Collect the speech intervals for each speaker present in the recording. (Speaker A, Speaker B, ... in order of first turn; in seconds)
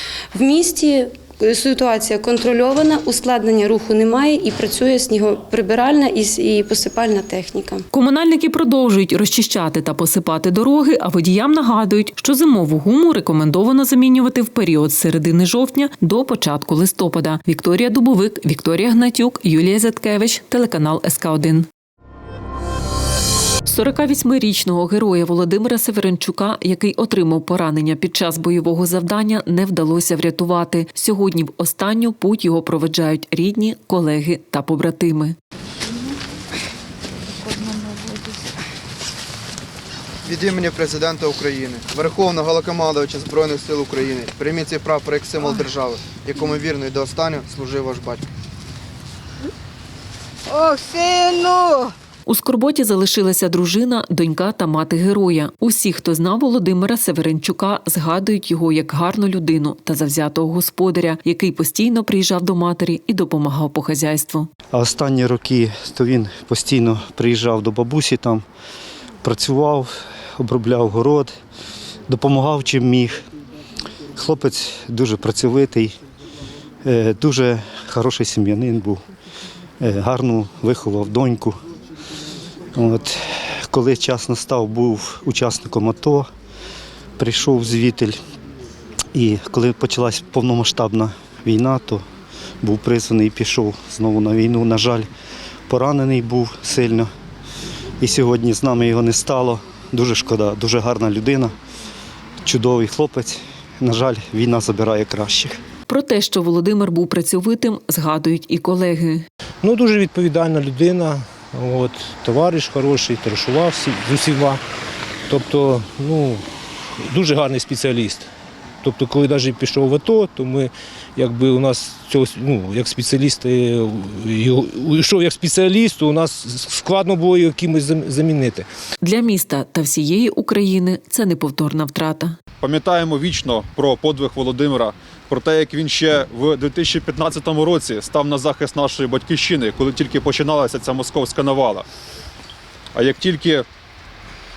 Speaker A: 0.3-7.8
Speaker B: 7.9-21.7, 23.6-35.4, 52.3-64.5, 105.9-109.2, 129.0-132.3
Speaker C: 40.3-48.2
Speaker D: 64.7-68.4, 69.2-71.3, 72.1-73.2, 74.1-75.9, 76.8-79.0, 79.8-81.6, 82.7-86.3, 87.2-88.2, 89.1-92.0, 92.6-95.1, 95.7-97.1, 98.0-101.5, 102.4-105.6
Speaker E: 109.6-114.6, 115.3-116.4, 117.0-118.3, 118.8-128.7
Speaker F: 132.6-141.8, 142.9-143.7